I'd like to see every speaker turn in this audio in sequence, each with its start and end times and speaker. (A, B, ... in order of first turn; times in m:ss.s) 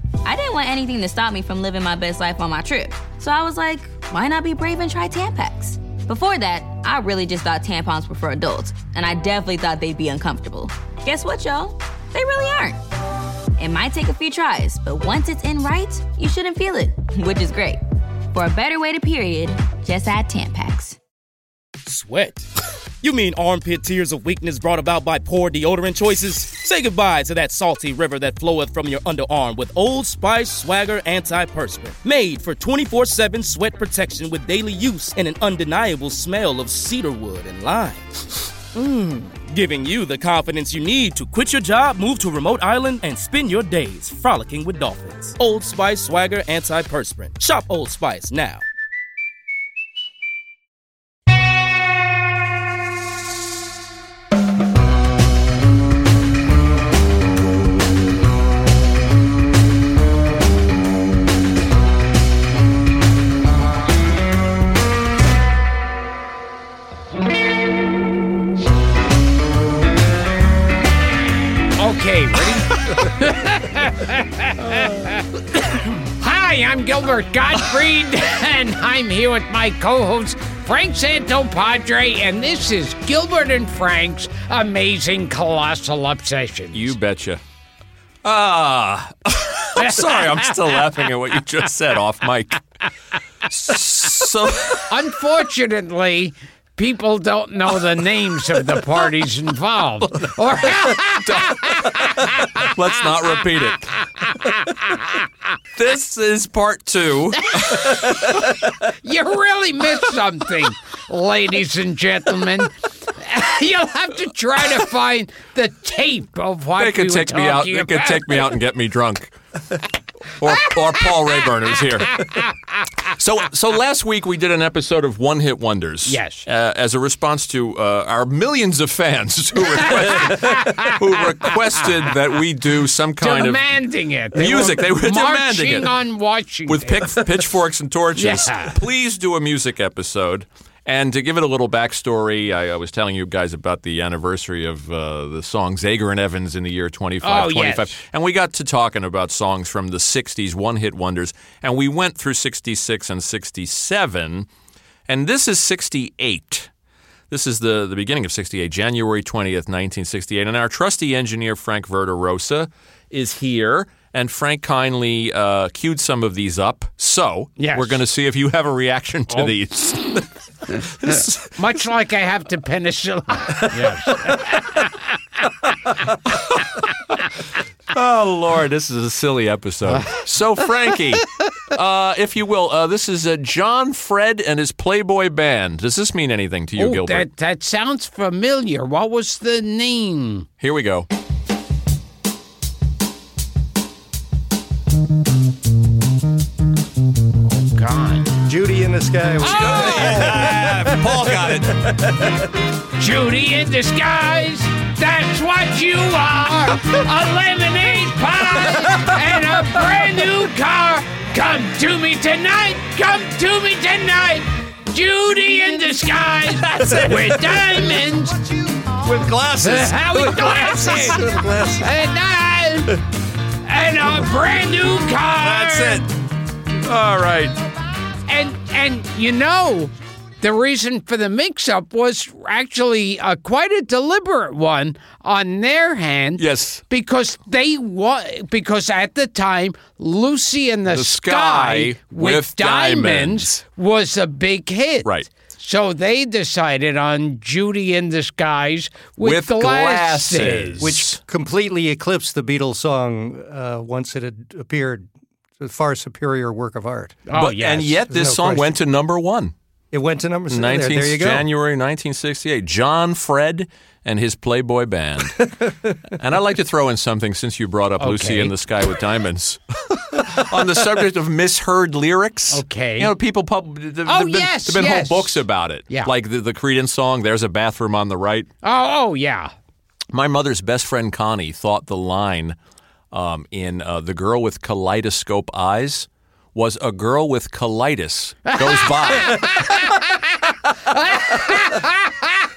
0:00.2-0:12.8 A
0:13.6-0:17.8 A
0:18.3-0:21.0 A
0:21.8-0:22.5 B
0:23.0-0:38.2 B
0:38.7-0:48.6 B
1:11.8-1:26.9 C
1:26.7-1:27.4 D
1:28.2-1:32.6 D
1:29.8-1:30.5 C
1:33.5-1:34.9 D
1:34.9-1:42.6 C
1:41.2-1:44.0 D
1:44.2-1:44.6 C
1:45.8-1:48.6 D
1:47.6-1:48.2 C
1:49.0-1:58.5 C
1:56.8-1:59.3 D
2:00.4-2:02.4 D
2:02.1-2:02.4 C
2:03.0-2:13.6 D
2:06.0-2:06.4 C
2:09.8-2:11.6 C
2:13.2-2:17.2 C
2:14.3-2:15.9 D
2:16.7-2:34.5 D
2:18.2-2:18.8 C
2:27.2-2:27.9 C
2:35.1-2:36.7 D
2:37.3-2:51.6 D
2:47.6-2:48.0 C
2:51.6-2:54.9 C
2:57.9-3:07.3 D
2:59.9-3:00.2 C
3:06.8-3:10.5 C
3:10.6-3:11.1 D
3:17.5-3:18.3 C
3:18.4-3:21.9 E
3:19.4-3:20.7 C
3:19.4-3:21.8 D
3:23.0-3:38.4 C
3:36.6-3:37.8 E
3:39.0-3:41.9 E
3:39.1-3:39.4 D
3:39.6-3:41.2 C
3:41.8-3:43.0 C
3:43.6-3:46.0 C
3:45.4-3:46.1 D
3:46.8-3:47.5 D
3:48.3-4:10.9 C
3:56.4-3:56.8 D
4:00.9-4:03.6 D
4:09.2-4:11.2 D
4:10.8-4:15.1 E
4:15.6-4:17.2 E
4:17.3-4:18.0 C
4:17.3-4:19.5 D
4:18.1-4:18.7 E
4:19.9-4:21.4 E
4:20.5-4:25.5 D
4:26.2-4:38.5 D
4:28.0-4:28.5 C
4:32.5-4:33.1 C
4:34.0-4:36.1 C
4:38.6-4:39.5 C
4:40.1-4:42.6 D
4:43.1-4:49.8 D
4:48.5-4:50.1 C
4:50.8-4:52.4 C